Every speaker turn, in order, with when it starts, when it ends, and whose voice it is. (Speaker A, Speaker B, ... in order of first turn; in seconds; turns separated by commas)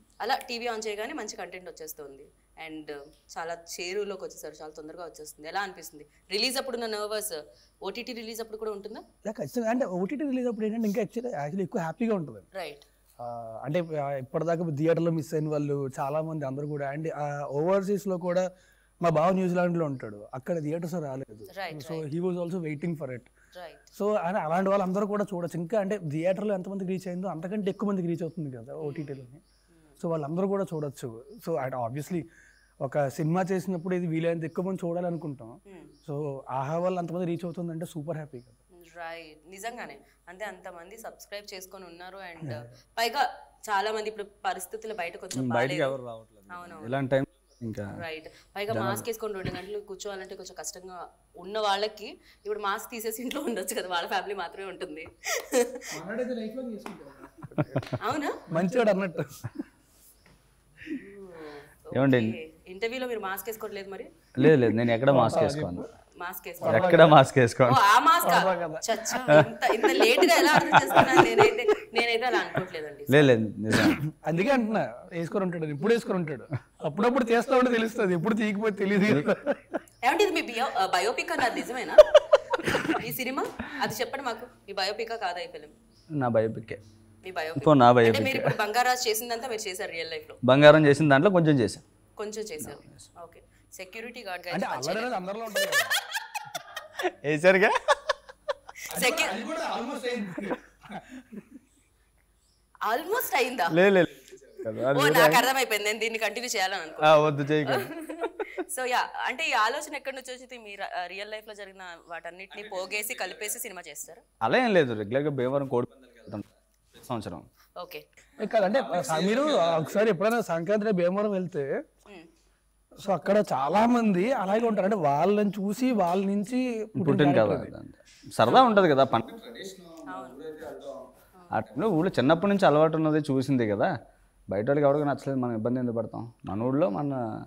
Speaker A: 0.2-9.0, Speaker B: 9.2-12.4, Speaker A: 12.5-12.8, Speaker B: 13.2-18.4, Speaker B: 19.0-23.3, Speaker A: 21.5-22.1, Speaker A: 23.5-23.8, Speaker B: 23.9-29.4, Speaker A: 28.8-30.0, Speaker B: 30.0-32.2, Speaker B: 32.8-38.6, Speaker A: 35.7-35.9, Speaker A: 38.8-45.9, Speaker B: 42.4-42.7, Speaker C: 45.3-48.0, Speaker A: 46.5-47.0, Speaker A: 47.9-55.8, Speaker C: 48.7-49.0, Speaker B: 55.9-58.0, Speaker A: 58.0-58.4, Speaker B: 58.5-59.5, Speaker A: 61.0-64.1, Speaker C: 61.9-62.4, Speaker C: 64.4-65.8, Speaker B: 65.0-65.8, Speaker A: 66.2-67.1, Speaker B: 66.6-67.2, Speaker C: 66.6-67.8, Speaker A: 67.6-73.3, Speaker B: 68.2-69.1, Speaker C: 69.3-69.5, Speaker B: 69.8-71.5, Speaker C: 73.1-74.0, Speaker B: 73.8-79.8, Speaker A: 80.0-82.0, Speaker A: 82.9-85.7, Speaker C: 86.2-86.8, Speaker A: 87.2-90.4, Speaker C: 87.6-88.6, Speaker C: 90.4-91.8, Speaker A: 92.2-95.8, Speaker C: 92.6-93.1, Speaker B: 94.5-95.9, Speaker C: 97.0-97.7, Speaker B: 98.9-101.2, Speaker A: 98.9-99.5, Speaker A: 102.8-103.8, Speaker C: 103.7-105.5, Speaker A: 104.9-114.2, Speaker C: 107.0-107.9, Speaker C: 114.4-117.5, Speaker A: 117.8-118.0, Speaker B: 118.4-121.7, Speaker C: 118.7-119.9, Speaker B: 123.0-127.7, Speaker C: 127.0-133.9, Speaker B: 128.5-128.7, Speaker A: 130.1-130.4, Speaker A: 131.4-131.6, Speaker C: 134.5-137.2